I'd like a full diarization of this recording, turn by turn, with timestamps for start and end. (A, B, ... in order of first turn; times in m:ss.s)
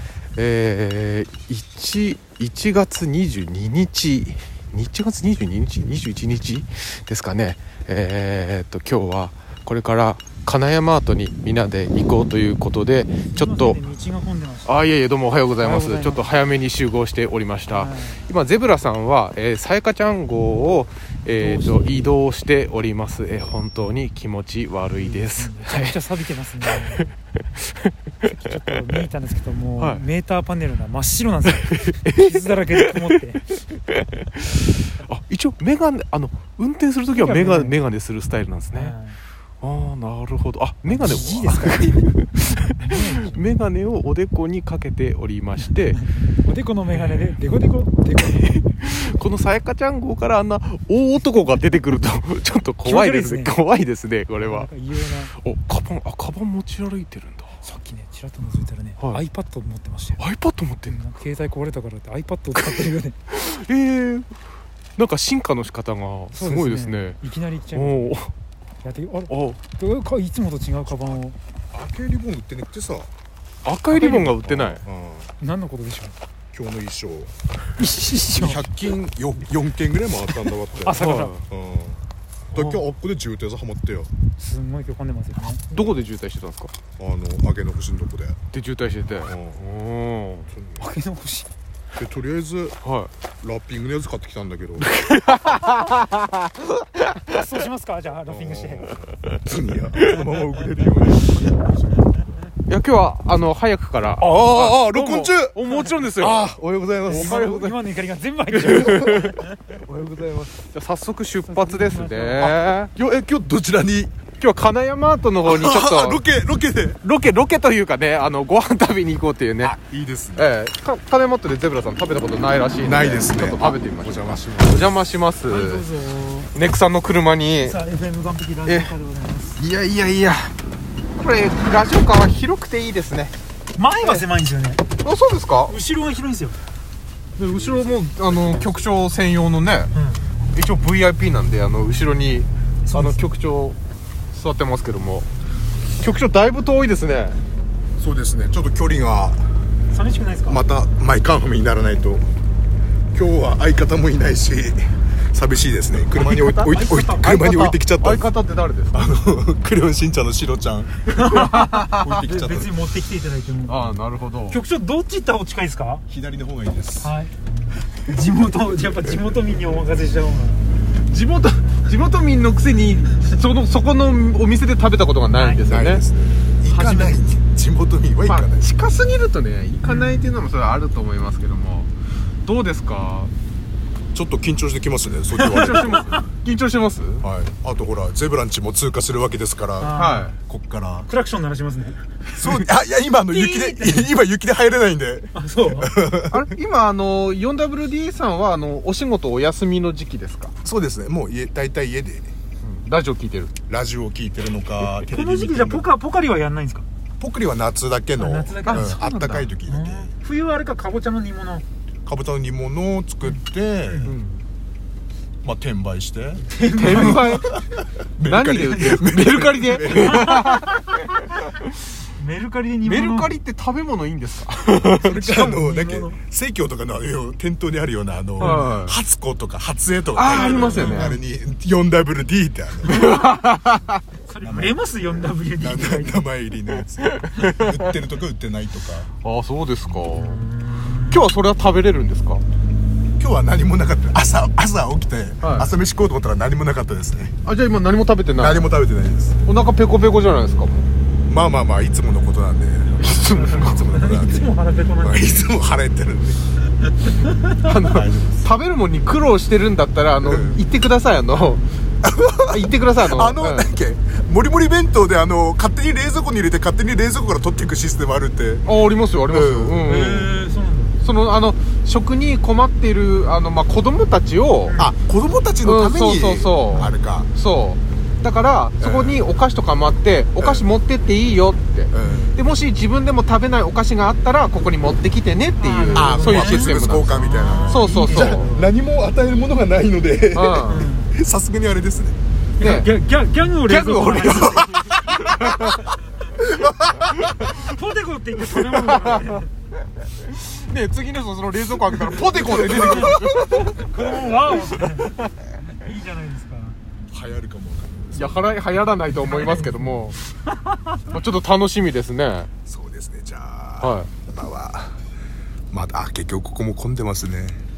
0:00.4-0:13.8 A
0:13.3-0:14.8 B
0:14.7-0:26.0 A
0:15.6-0:16.3 B
0:17.7-0:18.3 B
0:21.3-0:22.0 B
0:25.0-0:27.1 B
0:26.6-0:27.9 A
0:28.2-0:33.5 B
0:31.8-0:32.9 A
0:33.8-0:39.0 A
0:37.1-0:37.8 B
0:38.7-0:39.2 B
0:39.6-0:46.0 A
0:40.8-0:43.5 B
0:45.9-0:48.8 B
0:46.9-0:47.3 A
0:48.2-0:57.6 A
0:52.8-0:53.6 B
0:54.3-0:55.3 B
0:57.6-1:00.2 B
1:00.2-1:01.0 A
1:00.8-1:03.2 B
1:02.6-1:04.3 A
1:05.0-1:07.2 A
1:06.3-1:08.2 B
1:07.7-1:08.3 A
1:08.8-1:11.4 B
1:09.3-1:09.6 A
1:11.7-1:13.1 C
1:13.6-1:14.8 A
1:13.9-1:14.3 B
1:14.0-1:15.3 C
1:15.4-1:16.2 B
1:16.5-1:17.3 C
1:17.8-1:18.6 B
1:18.3-1:22.0 C
1:20.8-1:21.4 B
1:20.9-1:21.4 A
1:22.5-1:22.8 A
1:22.5-1:24.1 C
1:24.4-1:25.6 B
1:25.7-1:26.7 A
1:27.0-1:28.4 C
1:28.5-1:30.5 A
1:29.2-1:29.6 C
1:30.5-1:30.9 C
1:30.8-1:31.5 B
1:32.0-1:32.8 C
1:32.8-1:33.1 A
1:33.4-1:34.9 C
1:34.9-1:36.7 A
1:37.3-1:38.9 B
1:38.3-1:42.3 C
1:42.7-1:46.5 A
1:44.2-1:45.6 C
1:45.6-1:46.1 B
1:46.2-1:47.5 C
1:47.1-1:47.8 A
1:47.1-1:49.7 B
1:48.5-1:49.4 A
1:48.6-1:50.5 C
1:50.6-1:52.9 A
1:51.5-1:52.7 B
1:52.9-1:54.1 C
1:54.4-1:56.2 A
1:55.5-1:57.0 C
1:57.0-1:59.8 A
1:59.6-2:00.5 C
2:00.4-2:05.8 A
2:02.8-2:04.9 C
2:05.5-2:06.6 B
2:06.5-2:07.8 A
2:07.6-2:09.6 B
2:08.7-2:08.9 A
2:09.6-2:10.5 A
2:11.2-2:13.4 A
2:13.8-2:14.8 B
2:14.0-2:14.3 A
2:15.0-2:15.8 A
2:15.7-2:16.6 B
2:17.4-2:19.9 A
2:19.9-2:20.3 B
2:20.5-2:23.8 A
2:22.9-2:23.3 B
2:24.3-2:25.3 A
2:26.0-2:27.4 A
2:28.0-2:29.5 C
2:29.9-2:30.6 B
2:30.5-2:32.3 C
2:33.1-2:38.3 C
2:36.1-2:39.1 A
2:36.7-2:37.4 B
2:38.9-2:41.1 C
2:41.1-2:42.2 A
2:41.1-2:43.9 B
2:41.8-2:42.7 C
2:43.7-2:44.6 A
2:44.5-2:46.0 B
2:46.1-2:47.2 C
2:47.0-2:50.7 B
2:51.0-2:56.0 A
2:55.3-2:55.7 B
2:55.7-2:58.7 C
2:56.7-2:57.1 A
2:56.8-2:57.2 B
2:58.2-3:01.9 A
2:59.8-3:00.4 B
3:02.4-3:03.3 A
3:04.1-3:06.0 C
3:05.4-3:06.1 B
3:05.4-3:07.2 A
3:07.2-3:11.1 C
3:09.8-3:10.3 B
3:09.9-3:10.4 A
3:11.1-3:12.2 B
3:12.3-3:16.4 C
3:13.3-3:14.1 B
3:15.4-3:15.9 B
3:16.2-3:20.5 A
3:20.6-3:22.3 C
3:22.6-3:23.5 A
3:23.7-3:25.9 C
3:25.0-3:26.9 B
3:27.2-3:30.1 C
3:28.2-3:29.0 B
3:28.7-3:29.5 A
3:29.7-3:31.6 B
3:32.1-3:34.1 C
3:33.2-3:34.1 B
3:34.0-3:34.4 A
3:35.4-3:37.6 C
3:36.5-3:37.5 B
3:36.7-3:37.5 A
3:38.2-3:40.5 C
3:38.2-3:41.0 A
3:40.0-3:41.0 B
3:42.2-3:43.4 B
3:42.8-3:45.1 A
3:44.9-3:53.2 C
3:45.0-3:46.2 B
3:48.4-3:48.7 B
3:48.4-3:49.0 A
3:50.1-3:51.2 A
3:50.2-3:51.2 B
3:52.9-3:54.0 A
3:53.1-3:53.5 B
3:54.2-3:56.2 B
3:54.4-3:54.8 C
3:55.6-3:59.1 C
3:57.0-3:57.7 A
3:59.2-4:00.4 A
4:00.1-4:01.4 B
4:01.0-4:02.4 A
4:03.2-4:07.4 C
4:05.4-4:05.7 A
4:07.4-4:08.7 A
4:08.4-4:09.4 C
4:09.4-4:10.9 A
4:11.3-4:16.4 C
4:13.0-4:14.2 A
4:13.7-4:15.5 B
4:17.5-4:21.7 A
4:17.8-4:18.5 C
4:20.2-4:20.7 C
4:22.0-4:28.7 C
4:22.5-4:23.7 A
4:28.6-4:30.4 A
4:29.3-4:29.9 C
4:29.8-4:31.0 B
4:31.0-4:34.8 A
4:34.7-4:34.9 B
4:34.8-4:37.3 C
4:35.6-4:48.5 A
4:38.8-4:39.3 C
4:40.4-4:40.7 C
4:41.9-4:42.4 C
4:42.0-4:42.4 B
4:45.6-4:48.7 B
4:45.9-4:52.2 C
4:50.3-4:50.9 A
4:50.6-4:51.2 B
4:52.6-4:54.8 B
4:52.6-4:52.9 A
4:53.6-4:55.9 A
4:54.9-4:55.6 C
4:56.4-4:57.5 C
4:57.4-4:59.5 B
4:58.6-4:59.4 A
5:00.2-5:03.9 A
5:02.1-5:03.7 C
5:02.6-5:06.8 B
5:07.1-5:08.6 C
5:08.1-5:10.2 A
5:09.1-5:09.8 B
5:10.6-5:10.9 B
5:11.1-5:12.5 A
5:12.7-5:15.0 C
5:13.8-5:14.1 A
5:15.7-5:17.6 C